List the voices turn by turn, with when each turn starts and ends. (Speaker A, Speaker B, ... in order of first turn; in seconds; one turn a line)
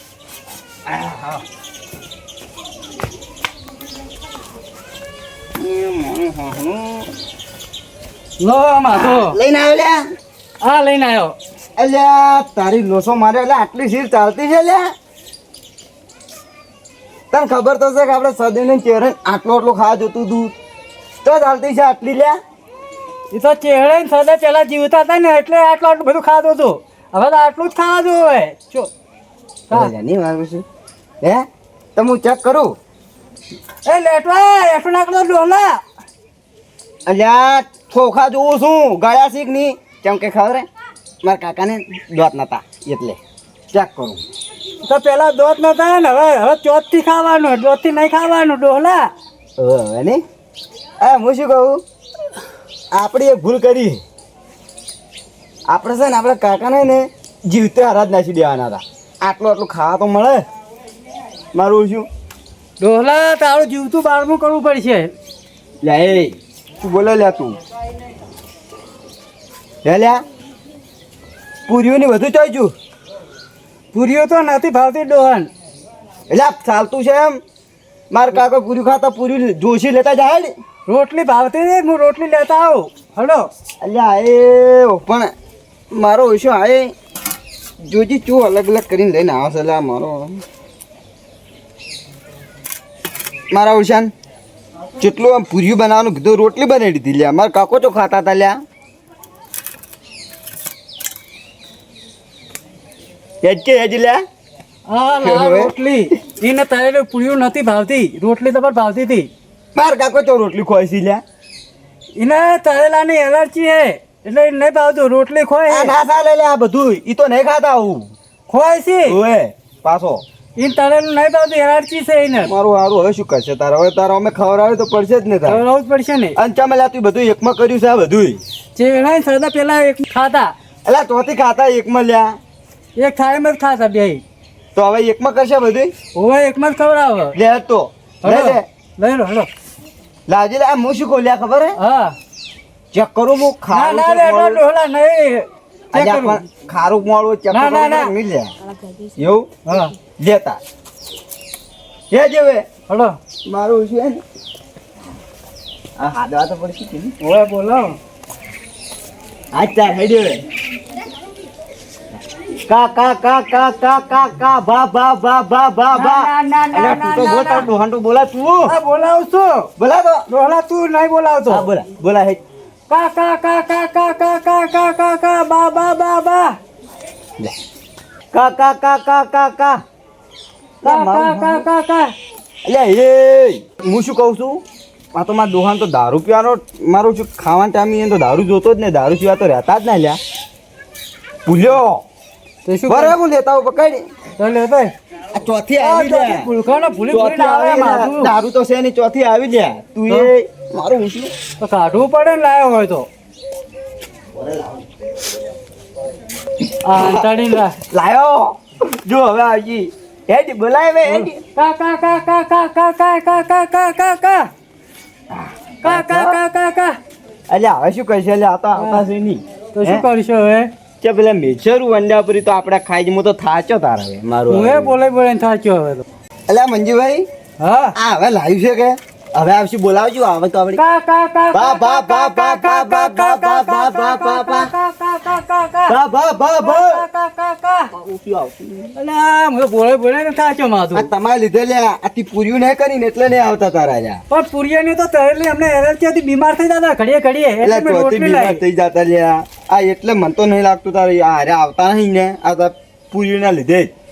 Speaker A: 0.9-1.4
Speaker A: 5.5-7.1
Speaker B: 8.4-9.4
Speaker A: 8.9-10.0
Speaker B: 10.6-11.3
Speaker A: 11.8-14.9
Speaker A: 17.3-20.5
Speaker A: 21.2-22.4
Speaker B: 23.3-28.9
Speaker A: 29.7-30.6
Speaker A: 31.2-32.8
Speaker B: 33.9-35.8
Speaker A: 37.0-40.7
Speaker A: 41.2-43.2
Speaker A: 43.7-44.2
Speaker B: 44.8-49.1
Speaker A: 49.6-50.2
Speaker A: 51.0-51.8
Speaker A: 52.9-54.0
Speaker A: 55.7-60.4
Speaker A: 61.5-62.1
Speaker B: 62.8-65.1
Speaker A: 65.8-67.6
Speaker A: 69.8-70.2
Speaker A: 71.7-72.7
Speaker B: 73.9-75.5
Speaker A: 76.3-77.4
Speaker A: 78.1-80.5
Speaker B: 80.9-83.5
Speaker A: 83.8-85.3
Speaker A: 85.9-86.9
Speaker A: 87.8-90.4
Speaker A: 93.5-94.1
Speaker A: 95.0-98.6
Speaker A: 103.4-104.2
Speaker B: 104.9-109.3
Speaker A: 105.2-105.7
Speaker A: 109.7-111.2
Speaker B: 112.2-115.9
Speaker A: 115.7-118.1
Speaker B: 118.5-119.2
Speaker A: 119.0-120.2
Speaker B: 120.6-122.5
Speaker A: 122.4-125.6
Speaker B: 125.4-126.3
Speaker A: 126.3-128.4
Speaker B: 128.8-130.5
Speaker A: 130.8-132.4
Speaker B: 132.9-134.2
Speaker A: 134.7-135.9
Speaker B: 136.1-137.4
Speaker A: 137.3-138.6
Speaker B: 138.2-139.5
Speaker A: 140.3-141.8
Speaker B: 141.8-142.1
Speaker A: 142.9-144.6
Speaker B: 143.7-146.4
Speaker A: 145.9-148.5
Speaker B: 147.5-148.1
Speaker A: 149.2-149.5
Speaker B: 149.7-149.9
Speaker A: 150.2-150.6
Speaker A: 152.1-152.7
Speaker B: 152.9-153.1
Speaker A: 153.4-154.2
Speaker A: 156.0-157.1
Speaker B: 157.2-158.0
Speaker A: 159.5-160.4
Speaker A: 162.7-168.7
Speaker B: 165.9-167.7
Speaker B: 168.7-169.7
Speaker A: 169.8-170.2
Speaker B: 170.3-171.7
Speaker A: 171.5-172.4
Speaker B: 172.9-176.6
Speaker A: 178.3-179.8
Speaker A: 180.8-181.6
Speaker B: 180.8-182.1
Speaker A: 182.7-184.6
Speaker A: 185.1-190.2
Speaker A: 191.4-192.0
Speaker B: 192.7-193.1
Speaker A: 192.9-194.1
Speaker B: 194.4-194.9
Speaker A: 195.3-196.5
Speaker B: 195.8-198.3
Speaker A: 197.1-201.3
Speaker B: 201.6-203.1
Speaker A: 204.3-204.8
Speaker B: 206.8-207.8
Speaker A: 206.9-207.3
Speaker A: 207.9-211.4
Speaker B: 211.1-214.5
Speaker A: 215.3-216.4
Speaker B: 215.8-217.0
Speaker A: 217.5-220.0
Speaker B: 218.8-219.0
Speaker B: 219.7-220.7
Speaker A: 221.0-225.0
Speaker B: 224.5-226.0
Speaker A: 226.5-227.3
Speaker B: 227.6-227.9
Speaker A: 227.9-230.8
Speaker B: 230.7-235.9
Speaker A: 231.5-234.7
Speaker A: 235.9-237.0
Speaker B: 236.6-237.9
Speaker A: 237.9-238.9
Speaker B: 238.9-241.1
Speaker A: 240.9-244.2
Speaker B: 244.3-248.6
Speaker A: 247.6-253.9